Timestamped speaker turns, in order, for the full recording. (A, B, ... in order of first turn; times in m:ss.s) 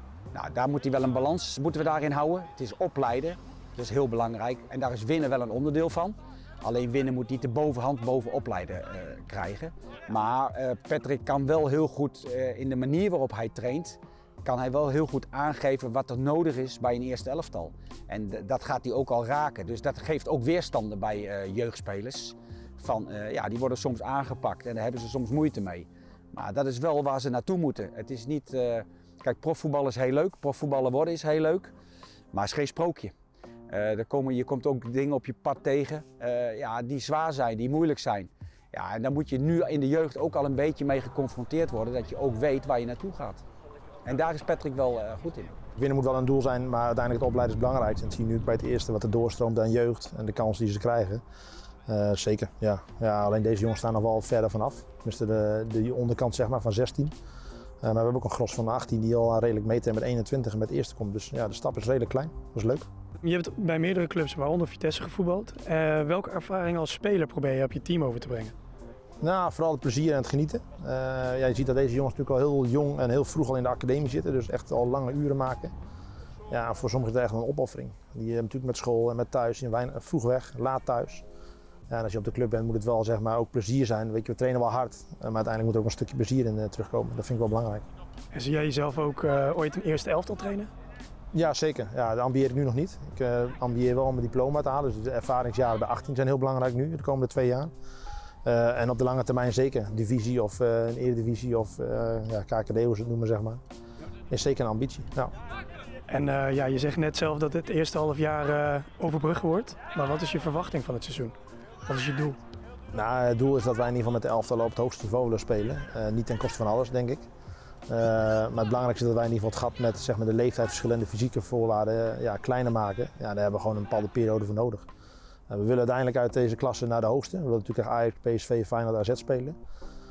0:00.3-0:31.7 A
0:32.3-0:33.1 A
0:33.7-0:43.4 A
0:44.0-0:45.5 A
0:45.8-0:51.2 B
0:51.9-0:57.1 B
0:57.8-1:02.9 B
1:03.2-1:08.5 C
1:09.2-1:15.7 B
1:16.5-1:21.2 B
1:21.9-1:27.8 B
1:28.3-1:30.7 C
1:31.3-1:37.7 B
1:38.4-1:43.6 B
1:44.3-1:45.3 B
1:46.1-1:51.3 C
1:51.8-1:52.4 C
1:52.9-1:57.3 B
1:57.9-2:04.8 B
2:05.5-2:09.6 B